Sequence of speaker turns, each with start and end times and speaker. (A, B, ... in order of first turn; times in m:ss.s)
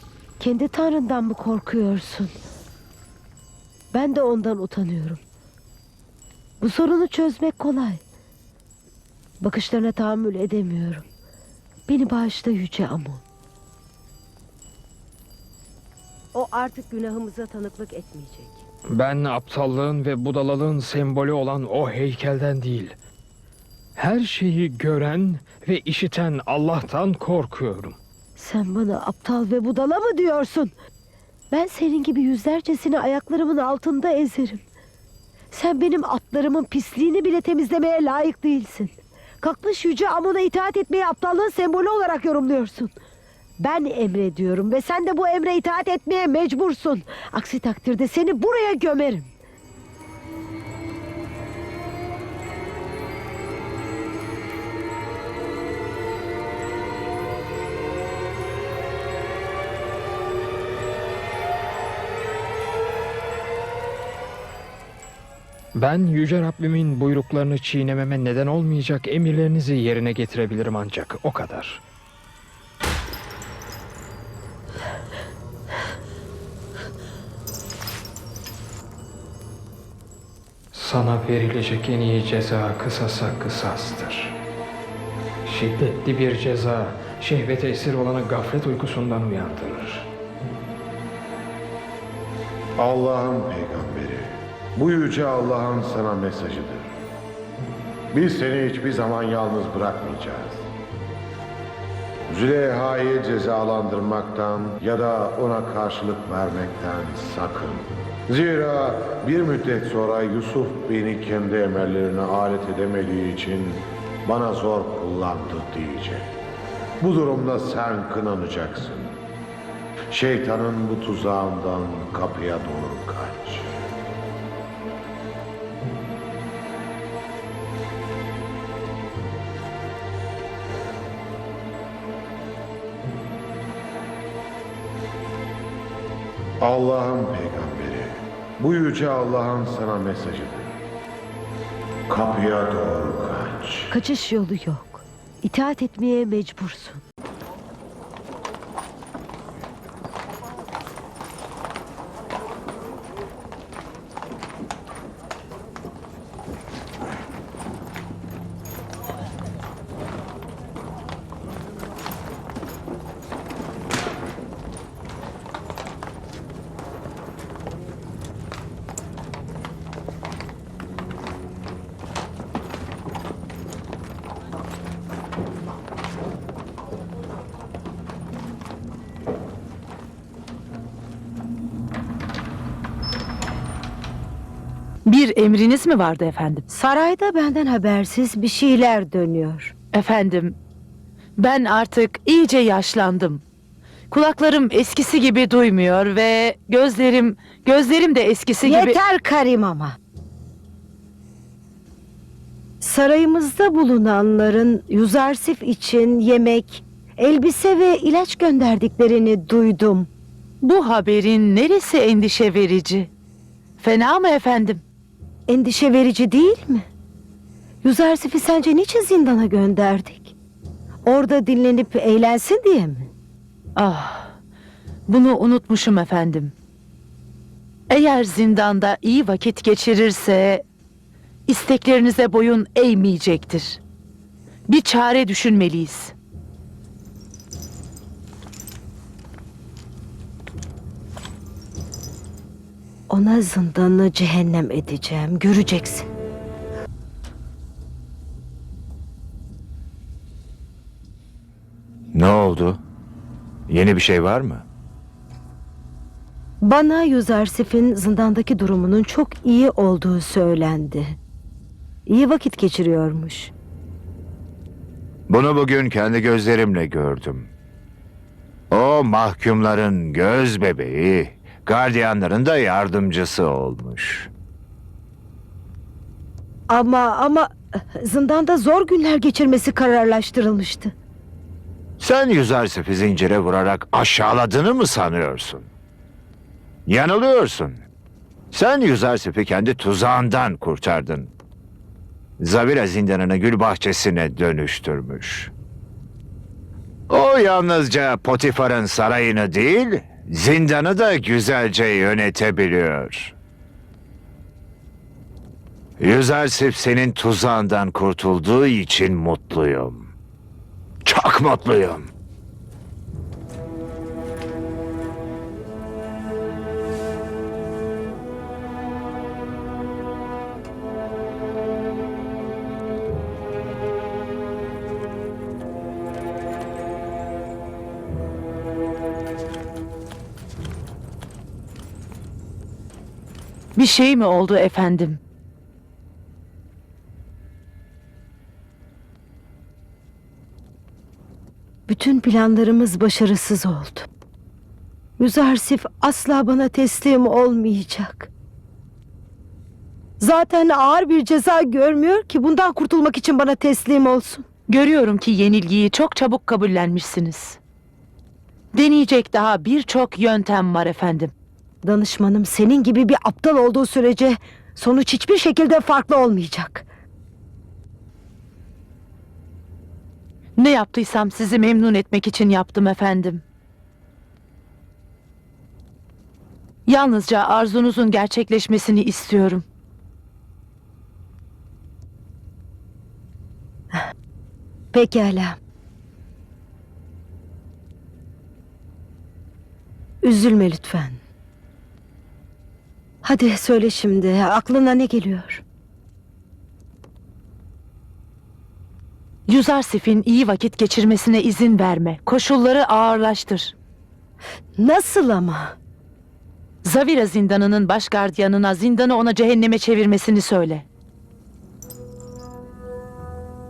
0:00.4-0:02.3 A
0:03.9-0:05.2 A
0:06.6-0:08.0 A
0:09.4-0:11.0 A
0:11.9-0:13.2 A
0:16.3-0:18.6 A
0:18.9-0:23.0 B
0:24.0-0:28.0 B
0:28.4-0:30.7 A
0:31.5-0:34.6 A
0:35.5-0:42.9 A
0:43.6-0:49.3 A
1:05.8-1:11.8 B
1:20.7-1:24.4 B
1:25.4-1:30.1 B
1:32.8-1:36.9 C
1:38.1-1:40.7 C
1:42.3-1:56.3 C
1:57.0-1:59.2 C
2:00.1-2:03.7 C
2:16.6-2:20.7 C
2:22.1-2:23.9 C
2:23.9-2:27.0 A
3:05.1-3:06.6 D
3:06.7-3:09.7 A
3:09.9-3:10.6 D
3:11.4-3:13.4 D
3:14.1-3:19.0 D
3:18.6-3:20.0 A
3:22.8-3:30.1 A
3:30.6-3:33.1 D
3:33.8-3:34.8 D
3:35.5-3:36.9 A
3:37.8-3:40.4 A
3:41.0-3:43.1 A
3:43.8-3:44.3 D
3:45.1-3:46.5 D
3:47.9-3:50.6 D
3:51.5-3:53.8 D
3:54.7-3:56.1 D
4:03.1-4:06.1 A
4:12.1-4:12.8 E
4:13.7-4:14.6 E
4:16.6-4:21.2 A
4:22.1-4:23.5 A
4:25.3-4:27.5 E
4:28.7-4:34.3 E
4:36.7-4:40.9 A
4:42.0-4:45.7 E
4:46.9-4:47.8 E
4:48.5-4:51.3 E
4:52.4-4:55.5 E
4:57.1-5:03.4 E
5:06.0-5:10.1 E
5:11.1-5:12.1 E
5:33.8-5:35.2 D
5:41.9-5:44.1 A
5:45.2-5:48.3 A
5:50.2-5:54.5 A
5:54.7-5:57.6 D
5:58.7-6:01.3 D
6:01.8-6:06.9 A
6:10.6-6:13.4 D
6:16.9-6:19.6 D
6:24.9-6:25.6 A
6:30.2-6:31.2 A
6:33.2-6:35.6 A
6:39.5-6:43.7 D
6:44.8-6:45.8 A
6:46.8-6:50.9 D